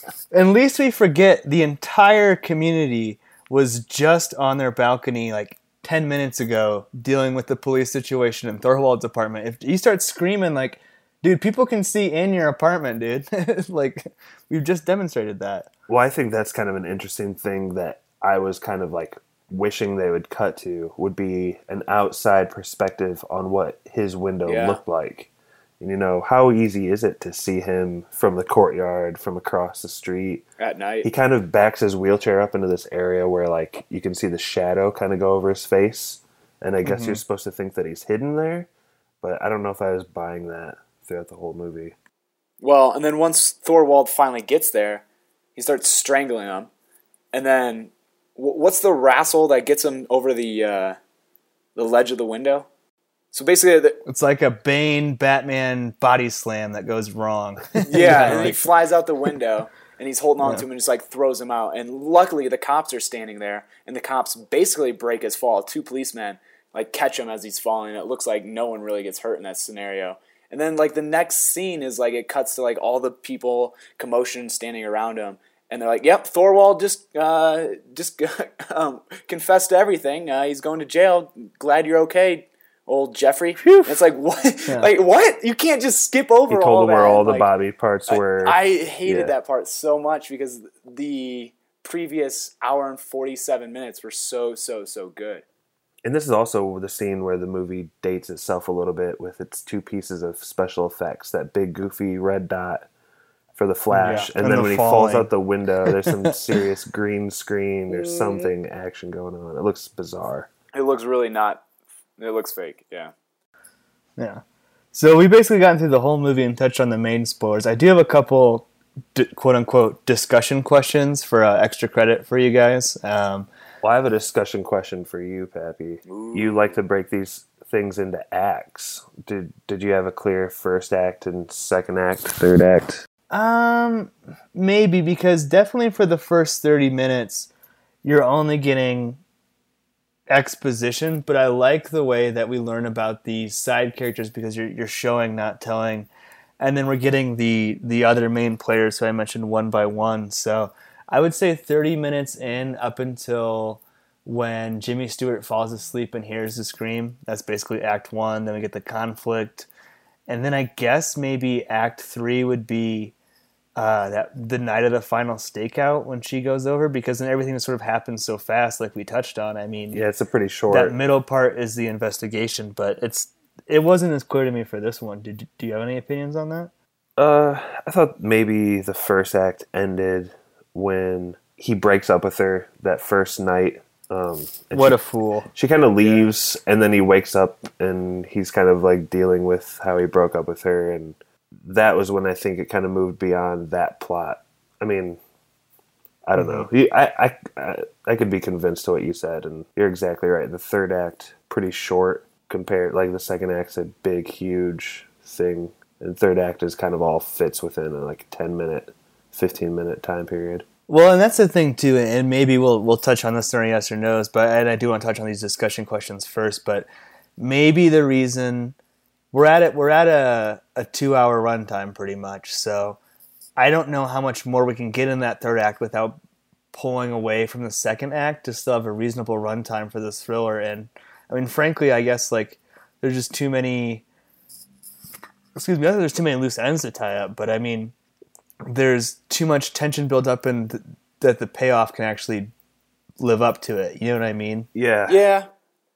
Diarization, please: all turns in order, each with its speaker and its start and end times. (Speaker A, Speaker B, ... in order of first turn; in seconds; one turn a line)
Speaker A: 0.3-15.7
Speaker B: 15.9-30.4
Speaker C: 24.5-24.8
Speaker C: 30.6-31.1
Speaker B: 31.0-38.7
Speaker A: 36.9-37.2
Speaker B: 39.2-42.0
Speaker C: 42.6-45.0
Speaker C: 45.6-46.7
Speaker C: 47.3-51.0
Speaker C: 51.8-52.7
Speaker C: 53.3-54.0
Speaker A: 54.1-58.7
Speaker C: 57.9-87.5
Speaker A: 83.6-84.0
Speaker B: 86.5-89.3
Speaker C: 88.1-95.4
Speaker B: 96.0-102.9
Speaker B: 103.6-110.5
Speaker A: 103.9-105.3
Speaker A: 106.1-106.3
Speaker C: 110.7-111.7
Speaker C: 112.2-113.1
Speaker A: 114.9-123.5
Speaker B: 123.8-133.0
Speaker C: 126.1-126.8
Speaker A: 133.3-137.5
Speaker A: 138.0-139.2
Speaker A: 140.3-146.1
Speaker A: 146.6-159.7
Speaker A: 160.3-163.1
Speaker A: 163.8-170.0
Speaker B: 169.9-170.9
Speaker A: 170.7-176.7
Speaker B: 177.2-185.0
Speaker A: 184.7-185.5
Speaker B: 185.5-195.2
Speaker B: 196.3-210.7
Speaker A: 196.4-196.7
Speaker A: 210.9-216.9
Speaker A: 217.4-218.8
Speaker A: 219.3-223.0
Speaker A: 223.6-226.2
Speaker A: 226.7-234.0
Speaker A: 235.6-237.9
Speaker A: 238.7-242.5
Speaker A: 243.2-244.7
Speaker B: 244.7-245.2
Speaker C: 245.1-245.5